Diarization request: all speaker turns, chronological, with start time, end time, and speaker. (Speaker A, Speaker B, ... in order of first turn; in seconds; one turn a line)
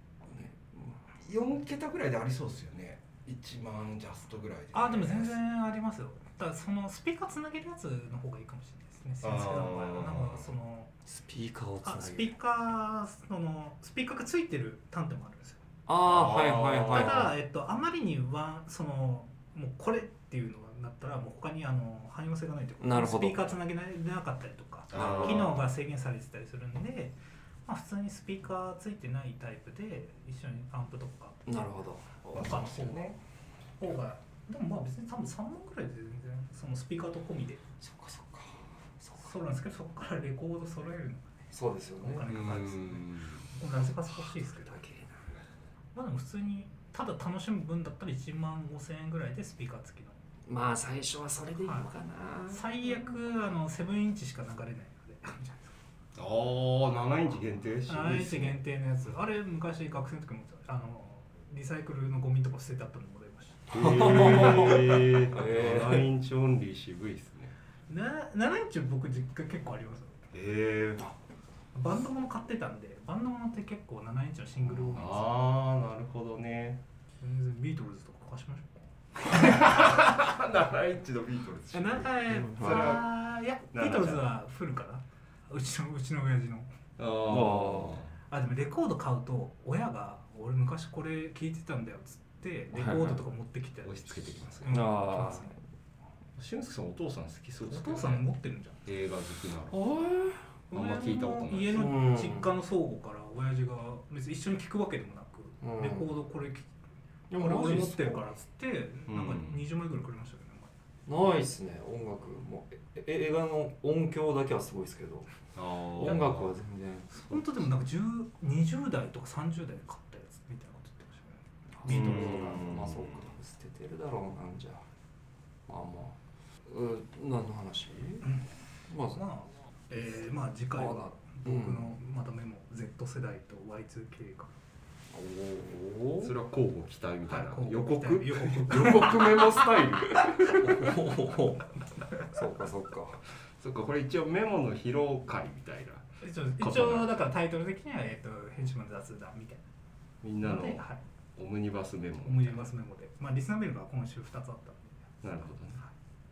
Speaker A: 0.2-1.0
Speaker B: 1.2-5.4
Speaker C: 4.7-10.9
Speaker B: 9.2-10.5
Speaker A: 11.1-12.3
Speaker C: 11.8-15.6
Speaker A: 15.9-17.3
Speaker B: 16.0-17.2
Speaker C: 16.9-31.4
Speaker A: 22.8-23.5
Speaker B: 24.9-25.6
Speaker A: 31.5-32.5
Speaker C: 32.3-33.2
Speaker B: 32.3-33.2
Speaker C: 33.8-37.6
Speaker A: 37.8-39.4
Speaker C: 39.2-44.8
Speaker A: 41.5-42.3
Speaker B: 42.2-43.5
Speaker A: 44.3-45.3
Speaker C: 45.9-50.2
Speaker A: 50.5-53.0
Speaker C: 52.5-55.8
Speaker B: 56.1-58.6
Speaker C: 57.9-64.5
Speaker B: 63.7-67.5
Speaker A: 63.7-66.1
Speaker C: 67.9-70.2
Speaker B: 70.3-71.1
Speaker C: 71.7-75.3
Speaker B: 74.9-76.8
Speaker C: 77.2-79.9
Speaker B: 79.3-83.1
Speaker C: 81.7-86.7
Speaker A: 82.3-83.0
Speaker B: 83.7-84.3
Speaker B: 87.0-88.1
Speaker A: 87.2-88.0
Speaker C: 88.3-95.5
Speaker A: 92.7-93.2
Speaker B: 93.8-94.8
Speaker A: 94.7-95.6
Speaker B: 96.4-98.2
Speaker C: 97.6-98.8
Speaker B: 98.8-99.9
Speaker A: 99.7-100.4
Speaker C: 100.7-106.7
Speaker B: 100.7-101.9
Speaker A: 101.7-102.5
Speaker A: 105.6-106.1
Speaker A: 107.3-108.2
Speaker C: 107.3-110.7
Speaker B: 109.1-109.6
Speaker A: 111.1-115.4
Speaker B: 115.5-116.5
Speaker A: 115.9-117.2
Speaker C: 117.1-122.7
Speaker A: 121.8-124.8
Speaker B: 121.9-123.3
Speaker A: 125.7-128.3
Speaker A: 128.9-129.2
Speaker C: 129.1-134.5
Speaker A: 130.7-131.9
Speaker A: 135.1-136.3
Speaker B: 136.2-141.2
Speaker C: 137.2-139.4
Speaker A: 140.5-141.7
Speaker A: 142.2-143.2
Speaker B: 143.3-146.1
Speaker C: 146.2-149.6
Speaker B: 146.6-147.1
Speaker B: 150.2-150.8
Speaker C: 150.4-151.0
Speaker B: 151.3-152.6
Speaker C: 152.2-155.2
Speaker B: 155.2-155.8